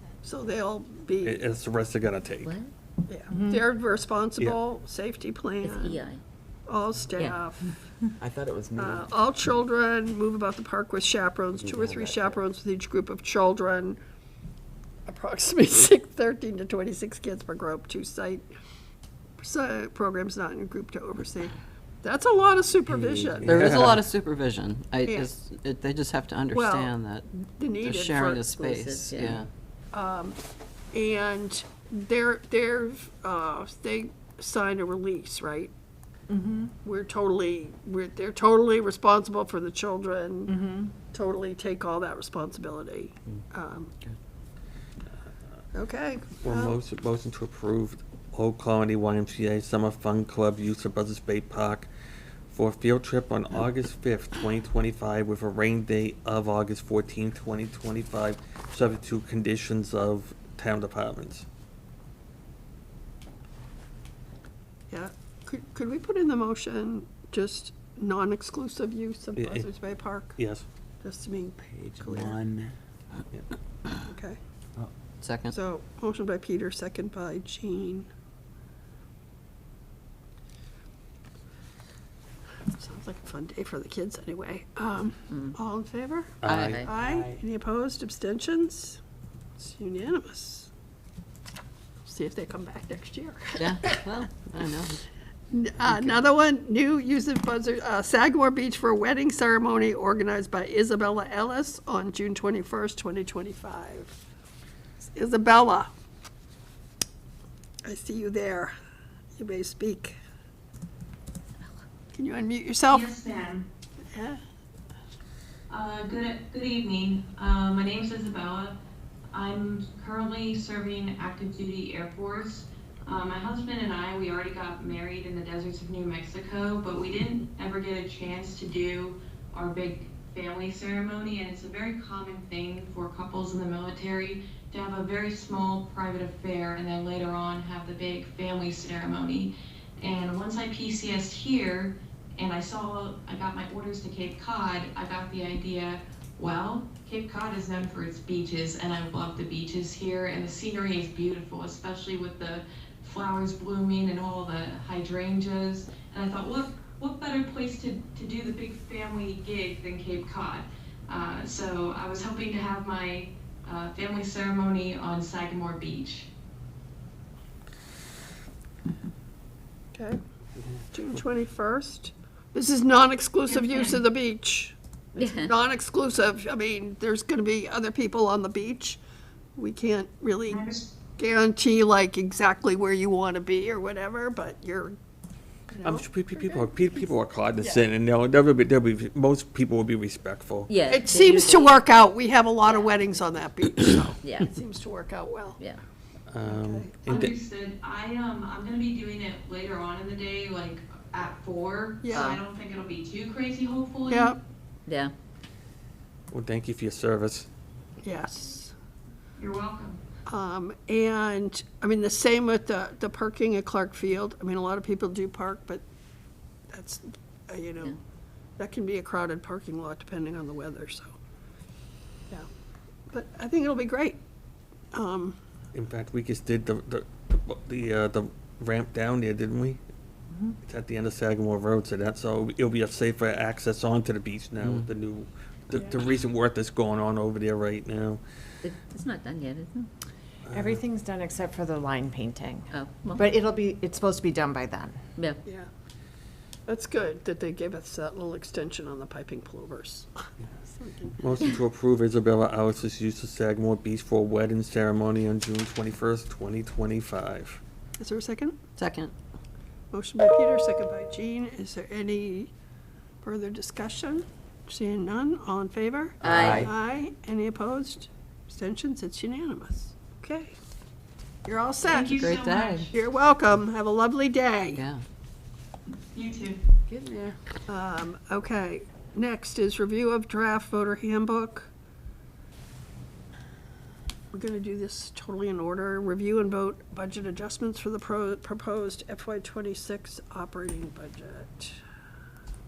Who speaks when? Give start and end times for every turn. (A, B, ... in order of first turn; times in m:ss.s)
0:00.2-0:01.4 A
0:01.2-0:02.5 B
0:02.4-0:02.7 C
0:03.1-0:06.0 A
0:03.3-0:03.6 D
0:05.6-0:06.2 C
0:06.7-0:07.7 A
0:08.2-0:09.0 E
0:08.8-0:14.0 A
0:11.6-0:12.4 E
0:15.1-0:18.4 A
0:19.4-0:23.5 A
0:22.9-0:23.7 E
0:23.4-0:24.0 B
0:23.4-0:27.3 F
0:25.0-0:25.3 A
0:26.5-0:28.5 A
0:27.8-0:29.5 F
0:28.5-0:29.4 C
0:29.9-0:30.4 A
0:30.9-0:35.7 A
0:36.3-0:36.7 D
0:36.8-0:40.5 A
0:40.5-0:40.9 D
0:41.1-0:43.9 A
0:45.7-0:46.8 A
0:46.4-0:51.9 B
0:52.5-1:01.4 B
1:04.9-1:10.4 A
1:09.4-1:09.7 B
1:10.4-1:10.6 B
1:11.0-1:12.4 A
1:11.7-1:12.7 E
1:14.0-1:14.4 A
1:15.2-1:15.5 F
1:15.5-1:18.1 A
1:22.7-1:29.0 A
1:25.3-1:25.6 C
1:26.4-1:26.9 B
1:29.6-1:30.7 A
1:32.0-1:34.1 A
1:33.6-1:35.0 F
1:35.5-1:44.1 A
1:45.0-1:45.9 A
1:47.8-1:48.7 A
1:49.4-1:50.2 A
1:52.1-1:53.1 A
1:52.9-1:53.6 G
1:54.1-1:54.4 A
1:55.7-1:58.8 G
1:59.3-2:46.3 G
2:49.9-2:50.2 A
2:50.9-2:59.0 A
2:53.5-2:54.0 G
2:55.2-2:55.5 C
2:59.6-3:00.6 A
3:00.5-3:00.8 G
3:01.2-3:05.0 A
3:05.7-3:06.7 A
3:05.8-3:10.7 B
3:07.6-3:07.8 A
3:10.7-3:11.9 C
3:10.9-3:15.6 A
3:12.6-3:13.2 C
3:14.2-3:14.5 C
3:16.3-3:17.3 B
3:16.4-3:17.0 A
3:17.0-3:24.3 G
3:22.0-3:22.3 A
3:22.1-3:22.4 C
3:24.1-3:24.4 A
3:24.9-3:25.1 C
3:26.3-3:27.5 B
3:28.0-3:28.7 A
3:29.4-3:30.0 G
3:30.3-3:35.8 A
3:36.7-3:38.0 A
3:38.6-3:41.1 A
3:43.1-3:44.2 A
3:44.9-3:45.4 A
3:45.7-3:49.8 B
3:50.6-3:58.2 B
3:58.6-3:59.9 C
4:00.4-4:00.8 B
4:00.5-4:05.1 D
4:02.7-4:03.3 C
4:05.2-4:05.4 C
4:06.7-4:10.1 A
4:10.6-4:11.5 A
4:11.2-4:17.6 B
4:18.0-4:18.6 A
4:18.8-4:19.1 F
4:19.9-4:22.5 A
4:23.2-4:30.5 A
4:26.2-4:26.6 C
4:26.4-4:26.7 F
4:31.4-4:32.3 A
4:31.9-4:32.9 G
4:32.1-4:32.9 F
4:32.9-4:34.8 A
4:34.7-4:35.0 F
4:36.1-4:36.6 G
4:37.7-4:41.7 A
4:44.3-4:51.8 A